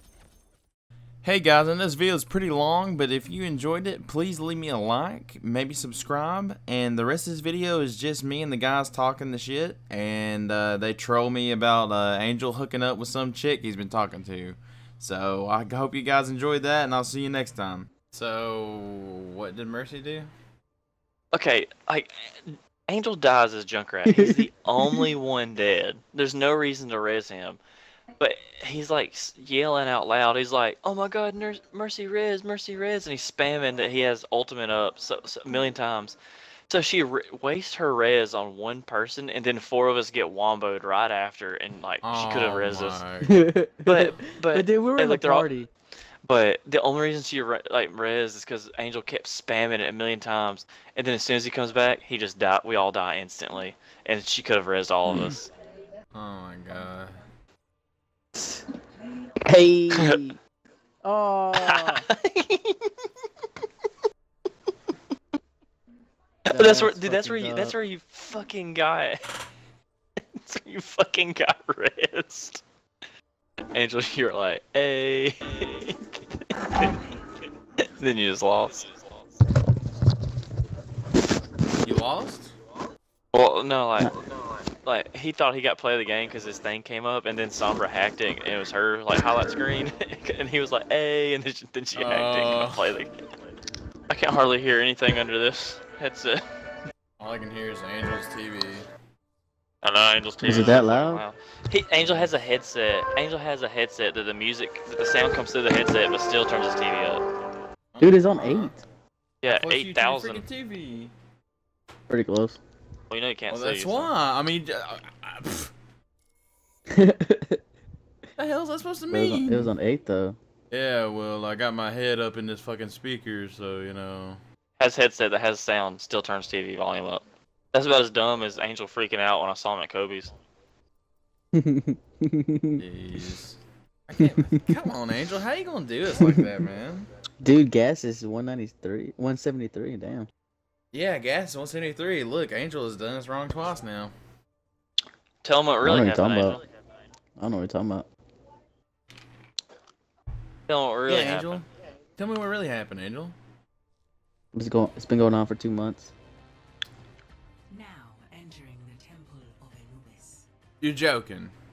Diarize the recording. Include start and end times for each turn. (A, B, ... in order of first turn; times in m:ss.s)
0:01.2-0:20.3 A
0:21.3-0:27.6 B
0:24.0-0:25.0 C
0:28.2-0:36.2 B
0:36.7-0:43.0 B
0:42.0-0:43.5 A
0:43.2-0:45.7 C
0:43.8-0:45.5 B
0:46.2-0:55.5 B
0:56.1-0:57.2 A
0:59.5-1:00.4 C
1:01.0-1:02.0 C
1:01.6-1:02.9 B
1:06.5-1:09.2 B
1:06.5-1:07.7 C
1:10.4-1:12.6 B
1:13.7-1:16.2 B
1:18.0-1:19.0 B
1:21.8-1:22.5 A
1:23.3-1:24.1 B
1:24.8-1:33.2 B
1:31.9-1:32.9 A
1:34.1-1:36.4 B
1:37.2-1:38.9 A
1:39.8-1:47.2 B
1:40.4-1:41.2 C
1:42.0-1:42.3 A
1:47.9-1:48.7 A
1:48.0-1:48.7 C
1:49.4-1:50.4 B
1:49.5-1:51.1 A
1:52.1-1:52.6 C
1:53.1-1:54.1 B
1:53.5-1:55.7 A
1:56.9-1:57.6 C
1:58.4-1:59.7 A
1:59.1-2:00.4 C
2:00.7-2:04.4 A
2:04.8-2:10.3 B
2:11.5-2:12.8 C
2:12.8-2:17.1 A
2:16.2-2:16.5 C
2:17.4-2:20.3 C
2:20.9-2:24.1 A
2:25.4-2:26.6 B
2:25.8-2:26.6 C
2:27.4-2:28.0 C
2:30.7-2:31.6 B
2:31.1-2:31.6 A
2:32.2-2:33.3 A
2:34.5-2:36.1 C
2:37.8-2:40.3 D
2:40.8-2:41.5 A